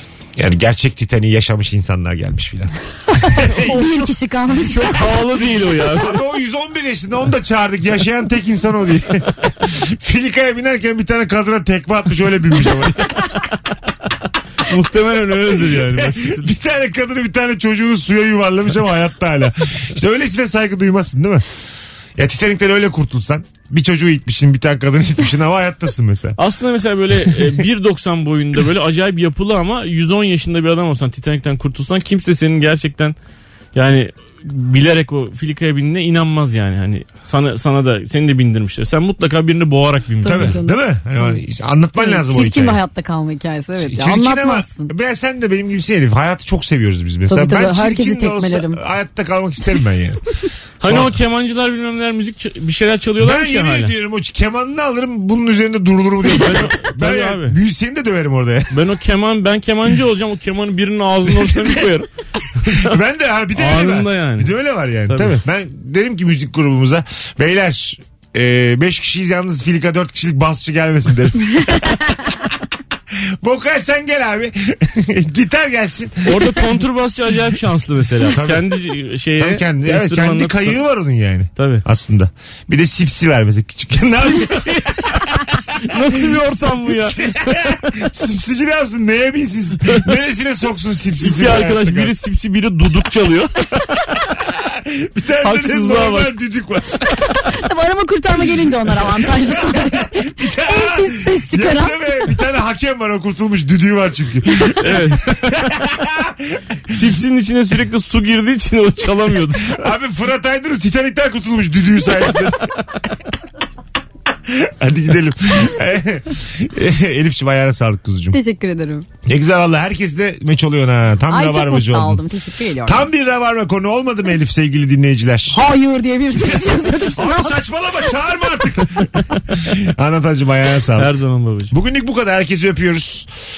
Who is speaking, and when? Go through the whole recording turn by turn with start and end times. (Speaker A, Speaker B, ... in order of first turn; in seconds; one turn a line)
Speaker A: 0.4-4.0
Speaker B: 3.3-5.2
Speaker C: 4.7-6.2
Speaker A: 5.8-13.3
Speaker C: 14.6-16.5
Speaker A: 15.5-21.5
Speaker A: 22.2-26.4
Speaker C: 26.4-33.1
Speaker C: 33.7-40.6
Speaker B: 40.2-41.4
Speaker A: 40.2-42.8
Speaker B: 42.0-44.9
Speaker A: 43.8-50.2
Speaker B: 47.3-48.8
Speaker C: 50.8-53.9
Speaker A: 50.8-51.1
Speaker A: 53.2-58.9
Speaker C: 56.2-57.6
Speaker C: 58.7-62.1
Speaker A: 61.3-61.9
Speaker C: 62.6-63.0
Speaker A: 62.7-72.6
Speaker C: 63.6-64.5
Speaker C: 65.1-65.4
Speaker A: 73.1-76.8
Speaker C: 76.2-80.8
Speaker A: 78.2-78.8
Speaker A: 79.4-92.1
Speaker C: 81.6-81.8
Speaker C: 84.2-84.9
Speaker C: 85.8-87.2
Speaker C: 91.2-94.0
Speaker A: 94.3-97.4
Speaker C: 95.4-96.3
Speaker B: 97.5-102.0
Speaker A: 99.0-107.1
Speaker C: 104.8-105.7
Speaker C: 106.9-109.9
Speaker A: 109.6-113.2
Speaker A: 114.5-118.4
Speaker B: 118.3-119.1
Speaker A: 119.3-122.2
Speaker B: 121.3-123.1
Speaker A: 122.8-125.6
Speaker B: 125.5-127.6
Speaker A: 126.4-131.1
Speaker C: 131.0-131.7
Speaker A: 131.7-133.3